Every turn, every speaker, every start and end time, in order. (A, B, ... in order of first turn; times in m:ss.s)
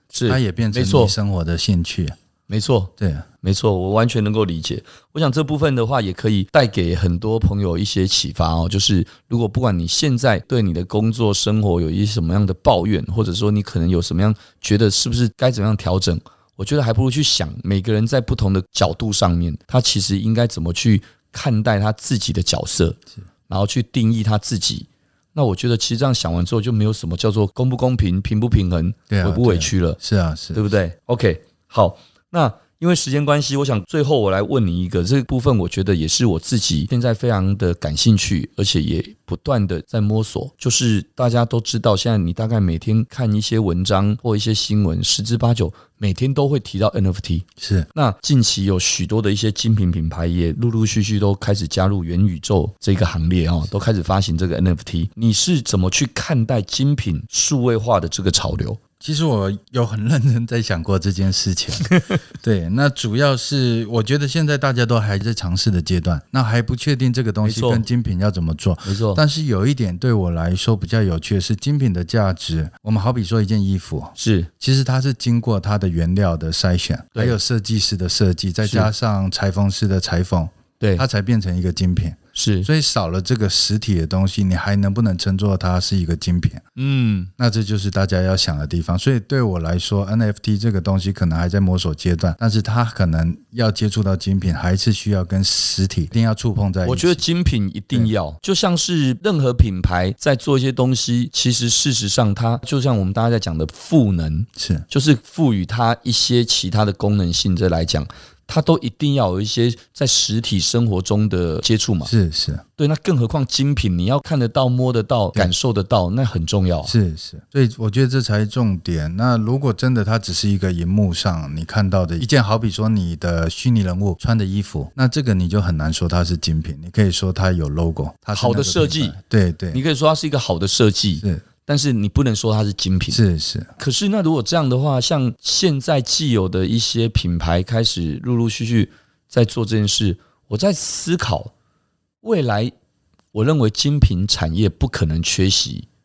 0:00.1-0:01.2 A
0:00.3-0:02.2 B
0:02.5-0:30.0 A
0:03.0-0:03.3 B
0:29.1-0:30.6 B
0:30.5-0:58.8 A
0:47.6-0:47.9 B
0:59.0-1:26.6 B
1:01.8-1:02.2 A
1:07.4-1:07.8 A
1:08.8-1:09.2 A
1:14.2-1:14.5 A
1:18.6-1:18.9 A
1:22.4-1:22.7 A
1:26.8-1:27.3 A
1:27.4-1:37.2 B
1:36.8-1:52.1 A
1:44.6-1:44.9 B
1:52.0-1:52.6 B
1:52.8-1:56.9 A
1:56.8-2:09.8 B
2:08.3-2:09.2 A
2:09.7-2:13.2 A
2:13.1-2:13.7 B
2:13.8-2:21.5 A
2:22.2-2:22.7 A
2:23.3-2:25.9 A